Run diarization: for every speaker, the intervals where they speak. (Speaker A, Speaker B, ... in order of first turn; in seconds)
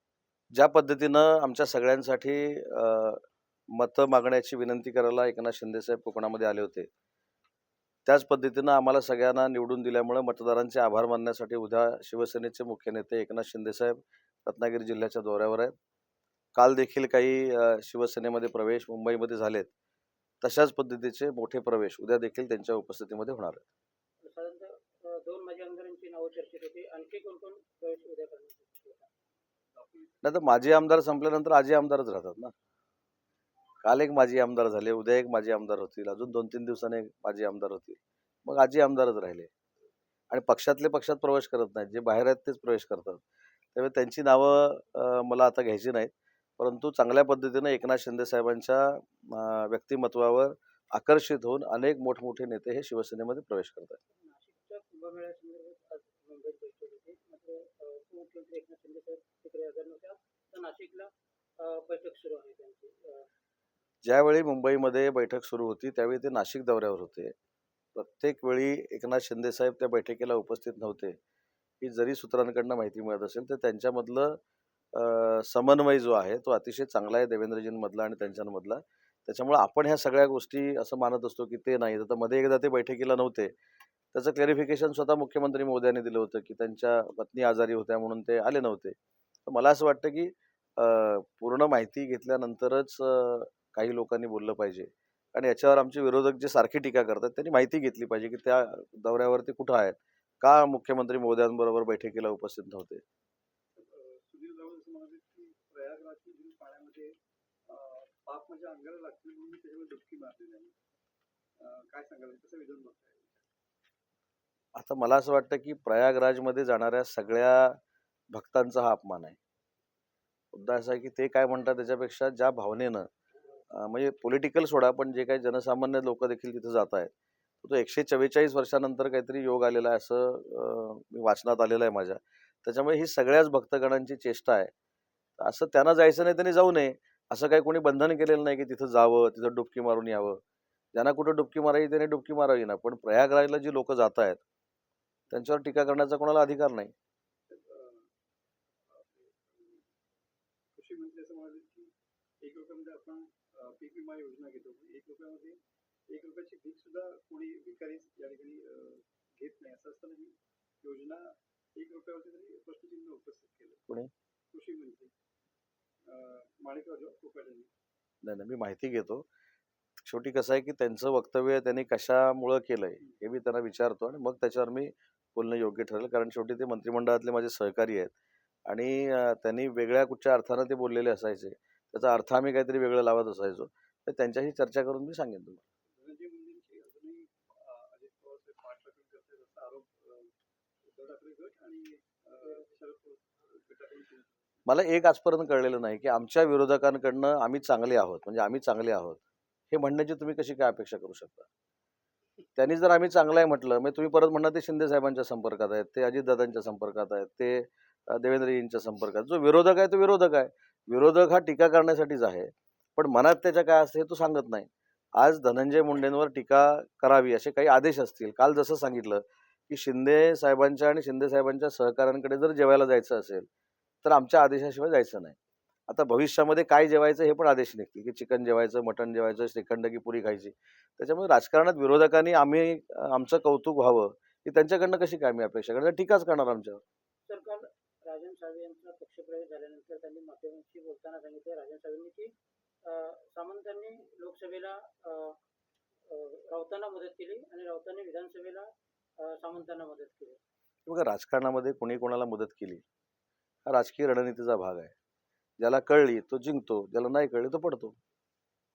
Speaker A: 0.5-6.9, 8.1-15.7, 16.6-19.7, 20.4-23.6, 30.2-32.5, 33.8-39.5, 40.3-43.2, 43.7-54.0, 64.0-67.3, 68.0-71.2, 71.8-74.4, 74.9-83.5, 84.1-89.0, 89.5-103.0, 114.8-117.8, 118.3-119.4, 120.5-123.1, 123.7-134.7, 135.4-140.4, 140.9-144.4, 145.3-146.9, 168.2-169.2, 170.0-178.1, 178.7-185.6, 194.7-201.5, 202.6-223.5, 224.0-225.4, 225.9-236.8, 250.8-252.8, 253.6-254.9, 255.6-258.0
Speaker B: 24.2-29.1, 54.1-63.3, 237.3-245.4, 246.1-250.4
Speaker C: 29.7-30.2, 103.8-107.2, 107.7-110.8, 111.6-113.5, 147.5-148.1, 148.9-149.8, 150.7-163.8, 164.5-165.1, 166.1-167.7, 185.9-190.3, 190.8-194.6